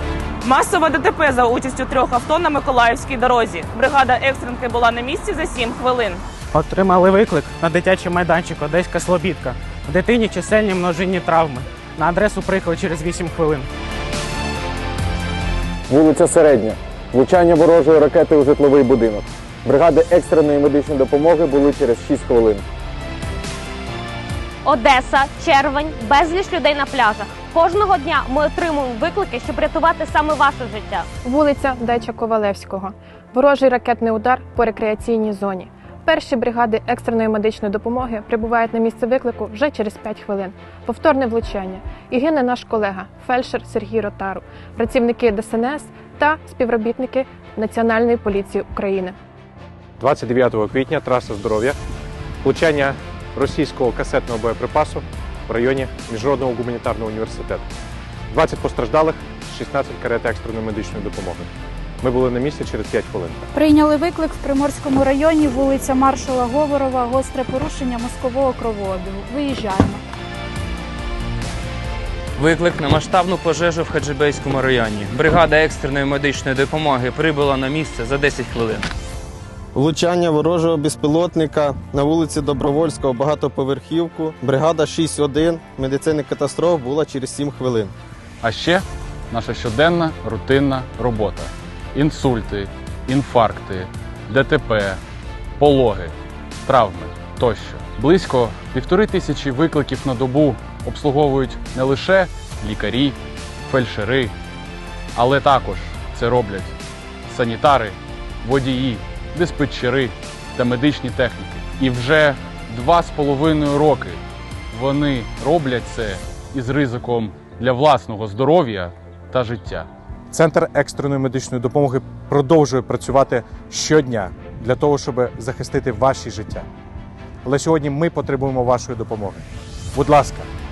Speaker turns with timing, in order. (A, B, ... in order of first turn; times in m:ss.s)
0:00.4-0:06.2 A
0:06.5-0:13.7 B
0:15.9-0:22.6 C
0:24.6-0:31.0 D
0:31.2-0:49.2 E
0:50.0-0:51.8 F
0:52.4-0:57.6 F
0:58.3-1:01.5 F
1:02.0-1:03.5 F
1:03.5-1:10.0 G
1:12.4-1:18.8 H
1:19.7-1:27.9 I
1:28.4-1:35.0 J
1:35.6-1:36.1 J
1:36.7-1:44.3 J
1:45.1-1:46.7 J
1:47.3-1:54.2 J
1:54.7-1:59.9 J
2:00.3-2:06.6 F
2:07.4-2:10.5 F